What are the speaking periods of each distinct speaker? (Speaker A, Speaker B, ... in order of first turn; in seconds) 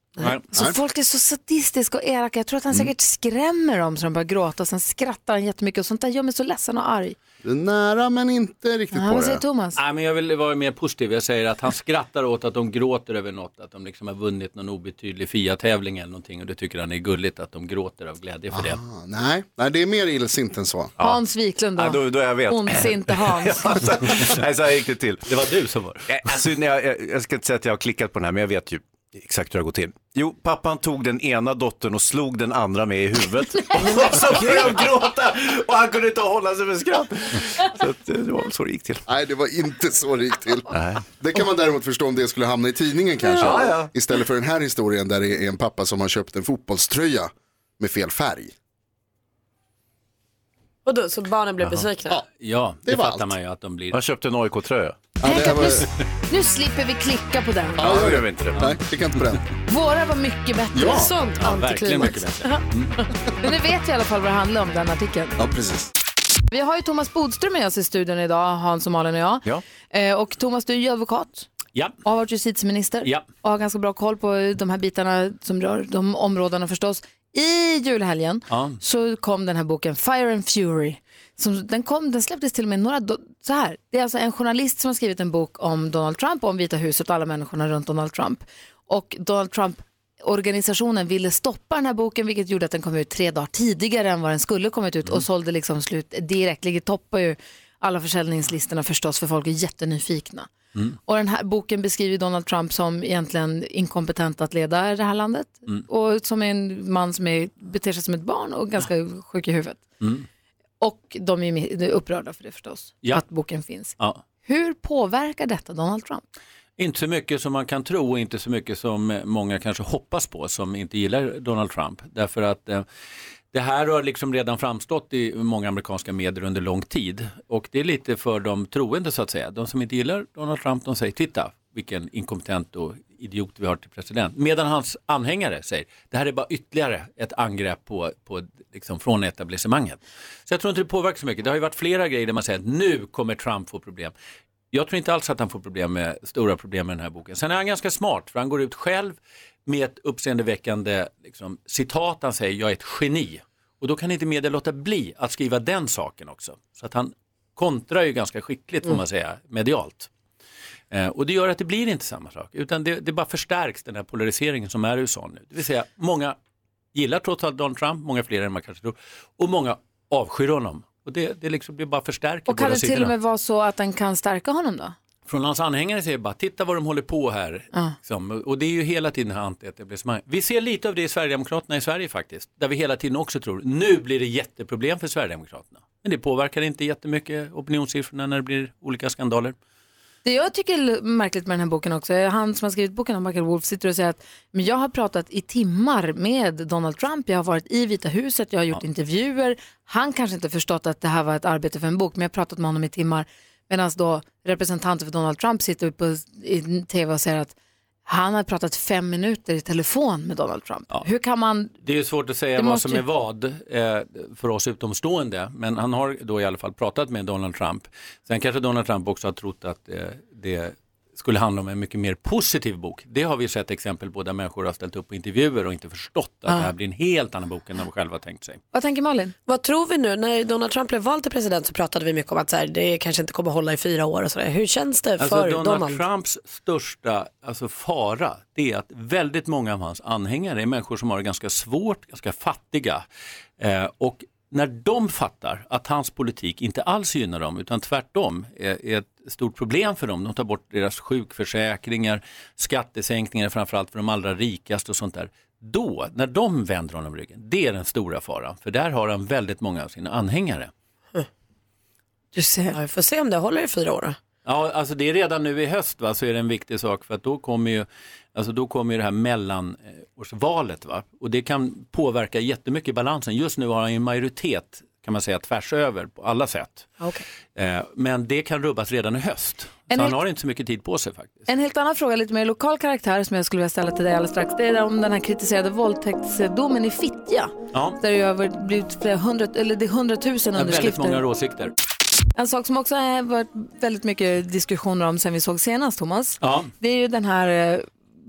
Speaker A: 0.2-7.2, 8.9-9.8, 21.0-23.7, 55.2-57.8, 59.7-61.0, 63.4-65.4, 66.5-71.5, 72.0-100.5, 101.0-109.8, 110.8-116.2, 172.5-174.9, 190.2-207.5, 208.1-211.7, 212.6-213.0, 228.7-229.3, 262.3-262.8, 279.9-280.2, 281.5-291.2, 292.4-297.9
Speaker B: 7.4-9.4, 18.5-20.9, 39.1-48.5, 52.9-53.3, 55.2-55.9, 57.8-59.4, 60.7-61.1, 65.4-65.9
Speaker C: 9.8-18.8, 25.3-26.3, 51.6-54.0, 55.5-55.9, 61.4-63.0, 78.5-78.8, 110.0-110.2, 116.8-122.8, 123.5-144.1, 144.7-160.1, 160.9-166.4, 166.9-173.1, 175.2-189.6, 211.8-228.6, 235.2-243.1, 243.6-260.7, 264.4-277.0, 277.5-281.5, 290.5-291.7, 296.4-296.7
Speaker D: 21.8-25.3, 26.1-39.0, 40.7-41.0, 43.4-43.9, 53.9-55.0, 57.8-58.6
Speaker E: 50.8-52.2, 60.8-62.3, 229.5-236.0, 262.7-264.2